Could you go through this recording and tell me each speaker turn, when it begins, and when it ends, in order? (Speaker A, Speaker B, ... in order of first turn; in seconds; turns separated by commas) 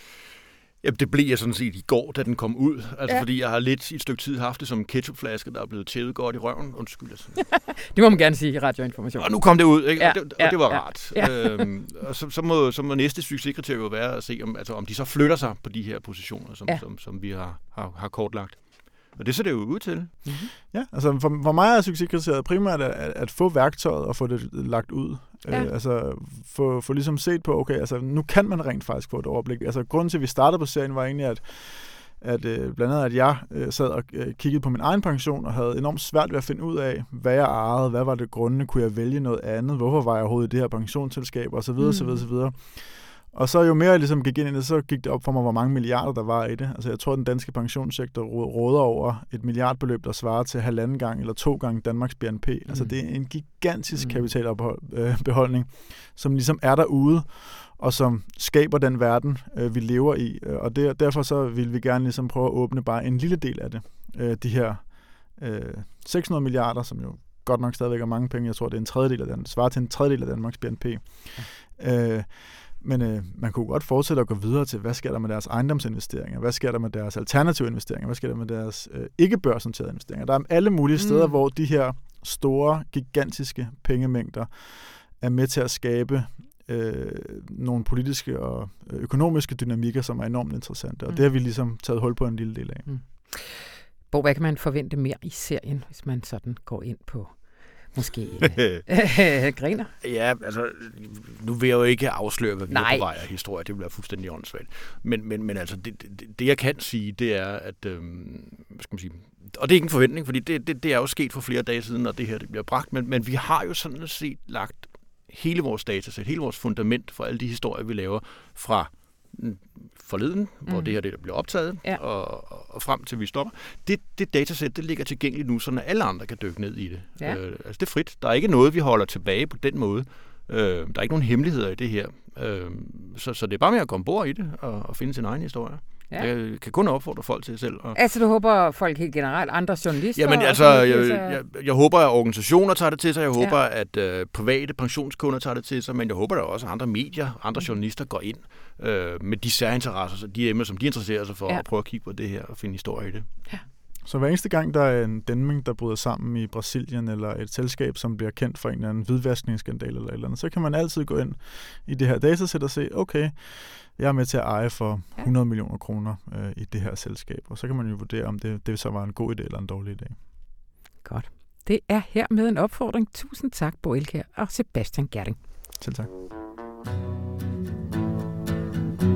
Speaker A: 0.8-7.6, Speaker B: 7.4-11.6, Speaker A: 9.2-20.3, Speaker B: 20.2-20.5, Speaker C: 20.7-92.9, Speaker B: 41.8-42.2, Speaker B: 52.7-53.0, Speaker B: 54.0-54.2, Speaker B: 81.0-81.3, Speaker B: 92.8-99.9, Speaker A: 98.5-98.8, Speaker A: 100.0-138.0, Speaker B: 102.7-103.0, Speaker B: 120.7-121.0, Speaker B: 137.9-141.4, Speaker A: 140.2-153.4, Speaker C: 154.1-170.2, Speaker B: 171.0-175.4, Speaker C: 175.8-176.1